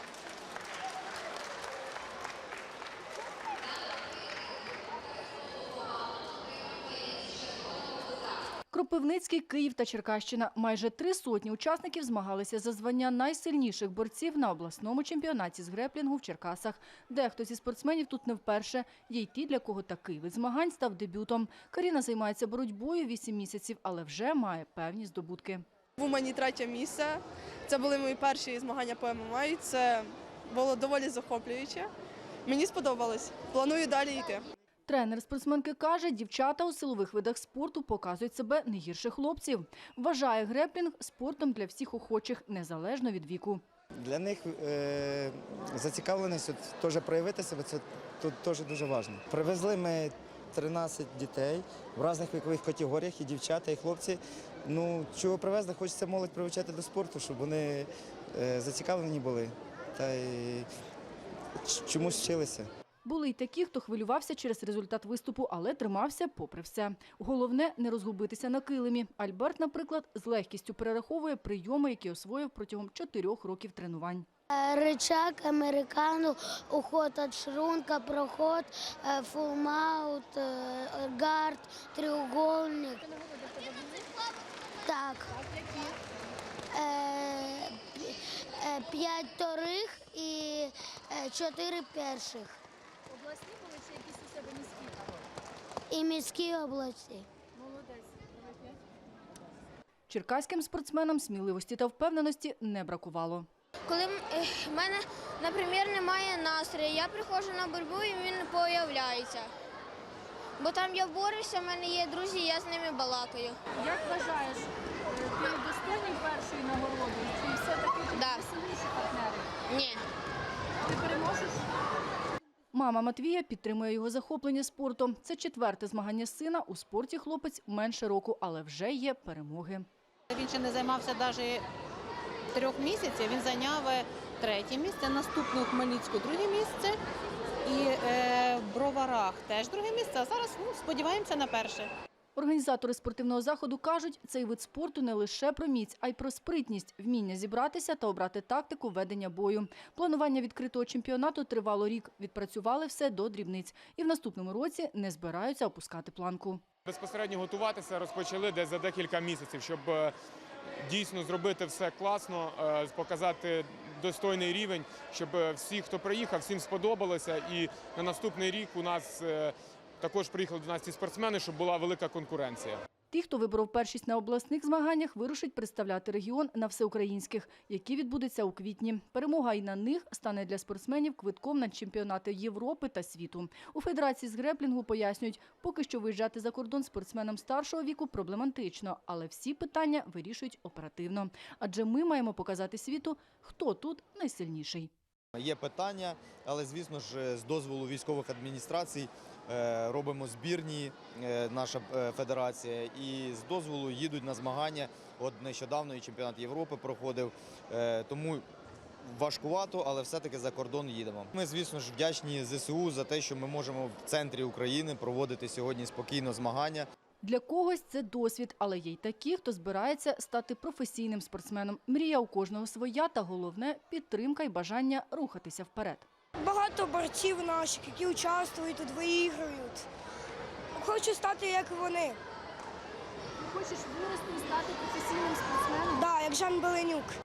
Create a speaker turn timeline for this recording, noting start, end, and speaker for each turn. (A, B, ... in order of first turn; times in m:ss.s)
0:08.7-0:25.6 A
0:26.0-0:31.9 B
0:32.5-0:34.4 B
0:34.9-0:43.6 A
0:44.0-1:00.7 C
1:01.6-1:02.7 C
1:03.0-1:14.3 A
1:14.5-1:23.1 D
1:23.6-1:24.0 E
1:24.8-1:25.6 D
1:26.7-1:32.6 D
1:33.2-1:35.2 E
1:35.9-1:37.3 D
1:37.6-1:38.5 E
1:40.1-1:43.5 A
1:43.9-1:49.5 F
1:50.6-1:53.6 F
1:53.8-1:59.4 E
1:58.1-1:58.5 F
1:59.7-2:00.0 F
2:00.9-2:01.6 E
2:02.7-2:09.9 A
2:10.3-2:11.6 G
2:12.5-2:17.0 G
2:17.6-2:21.9 G
2:22.4-2:36.6 A
2:36.9-2:40.2 H
2:40.8-2:52.8 H
2:53.1-3:14.9 A
3:15.4-3:28.4 I
3:29.1-3:36.9 I
3:37.2-3:46.1 A
3:46.4-3:49.8 J
3:50.8-3:52.2 J
3:53.6-3:55.4 A
3:53.6-3:56.1 E
3:56.0-3:57.1 J